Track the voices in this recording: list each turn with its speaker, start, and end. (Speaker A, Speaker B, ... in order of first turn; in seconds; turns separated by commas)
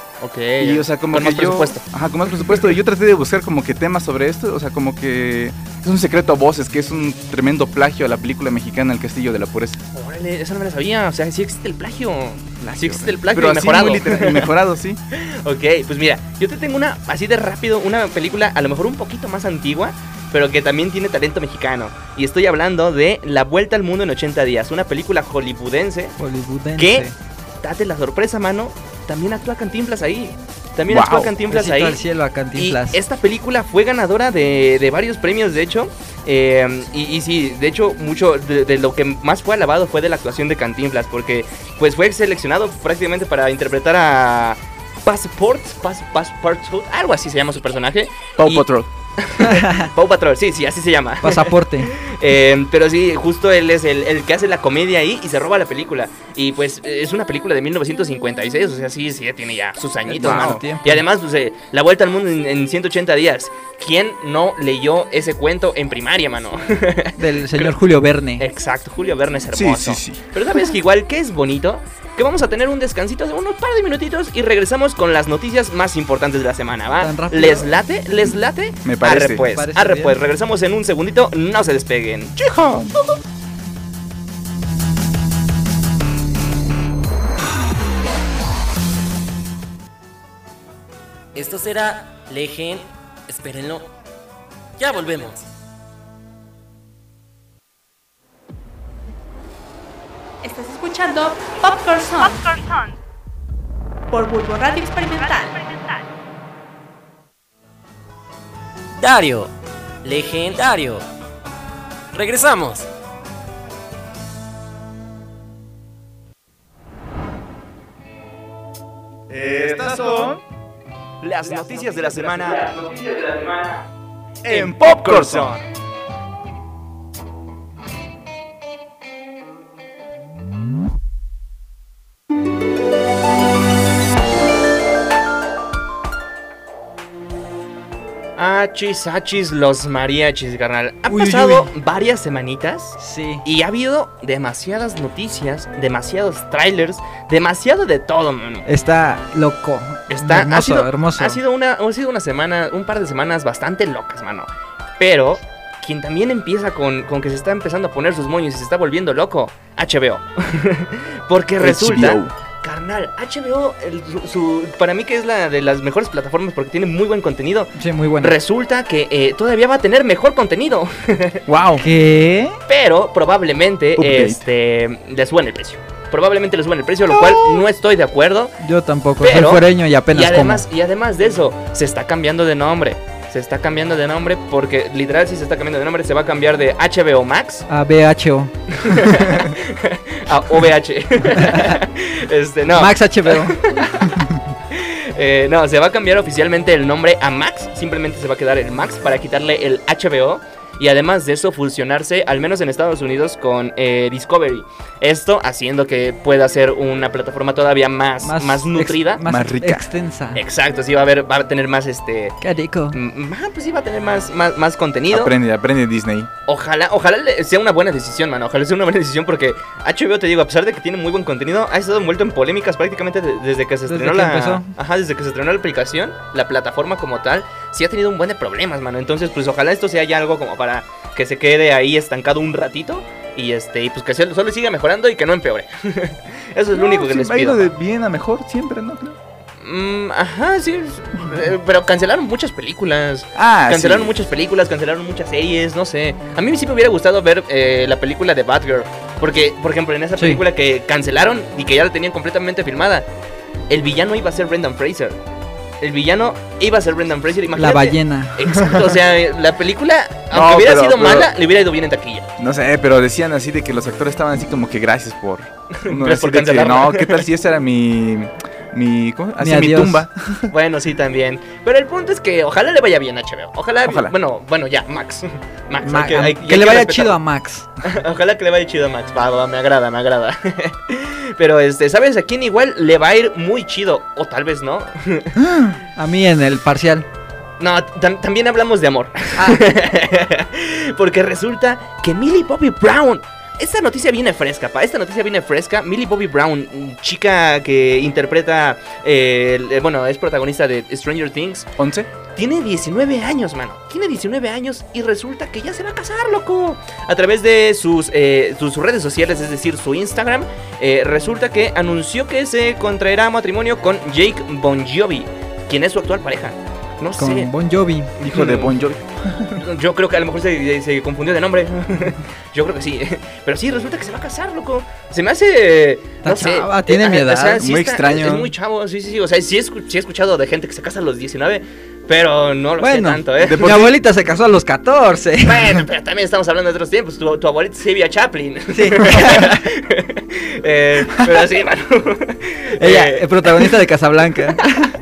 Speaker A: 0.2-1.8, Speaker B: 0.6-9.8, Speaker A: 9.9-14.5, Speaker B: 12.6-15.0, Speaker A: 15.1-26.2, Speaker C: 26.2-27.1, Speaker A: 26.8-27.1, Speaker A: 27.6-32.0, Speaker B: 30.9-31.3, Speaker C: 31.5-33.0, Speaker A: 32.5-48.7, Speaker B: 48.4-48.9, Speaker A: 49.2-67.8, Speaker C: 49.4-49.9, Speaker C: 51.2-51.9, Speaker C: 60.1-61.0, Speaker B: 60.2-60.6, Speaker C: 67.2-68.5, Speaker A: 68.4-82.5, Speaker B: 69.5-70.2, Speaker C: 77.0-77.7, Speaker B: 78.8-79.5, Speaker C: 79.5-80.2, Speaker B: 82.4-82.9, Speaker D: 91.3-93.9, Speaker D: 94.8-95.5, Speaker E: 100.4-102.7, Speaker E: 104.1-106.0, Speaker D: 109.0-109.5, Speaker D: 110.0-111.1, Speaker D: 112.1-112.9, Speaker B: 119.3-120.4, Speaker A: 121.2-123.9, Speaker B: 124.5-125.6, Speaker A: 124.5-125.6, Speaker A: 138.4-148.7, Speaker C: 141.1-141.7, Speaker C: 143.0-143.4, Speaker C: 148.7-151.4, Speaker A: 150.1-171.4, Speaker B: 161.6-162.3, Speaker C: 167.8-168.3, Speaker B: 171.5-171.8, Speaker C: 171.8-172.6, Speaker A: 172.7-178.6, Speaker B: 174.0-174.4, Speaker C: 178.6-180.6, Speaker A: 179.2-187.7, Speaker C: 187.7-189.0, Speaker A: 188.8-194.1, Speaker C: 191.4-191.8, Speaker C: 192.7-193.6, Speaker A: 194.7-209.2, Speaker C: 208.2-210.4, Speaker B: 209.2-209.9, Speaker A: 210.3-212.4, Speaker C: 212.4-213.0, Speaker A: 212.9-215.3, Speaker B: 215.1-216.3, Speaker A: 216.5-237.7, Speaker C: 223.9-224.7, Speaker B: 236.7-239.2, Speaker A: 239.6-253.1, Speaker B: 243.3-244.2, Speaker C: 250.2-250.4, Speaker A: 253.7-255.2, Speaker A: 255.8-262.3, Speaker C: 257.6-258.4, Speaker B: 260.3-261.3, Speaker B: 262.4-270.5, Speaker A: 265.8-267.3, Speaker C: 269.4-270.1, Speaker A: 270.5-277.2, Speaker B: 273.9-274.1, Speaker C: 275.8-277.7, Speaker A: 277.8-285.3, Speaker C: 286.0-287.1, Speaker A: 287.6-301.7, Speaker C: 289.4-289.6, Speaker B: 301.8-302.1, Speaker A: 302.4-317.5, Speaker C: 317.2-318.1, Speaker A: 318.2-318.8, Speaker B: 318.2-319.6, Speaker A: 319.6-333.9, Speaker C: 326.2-327.6, Speaker B: 327.6-328.5, Speaker C: 332.8-335.7, Speaker B: 333.4-333.9, Speaker A: 335.4-343.7, Speaker C: 338.7-339.6, Speaker C: 342.8-344.9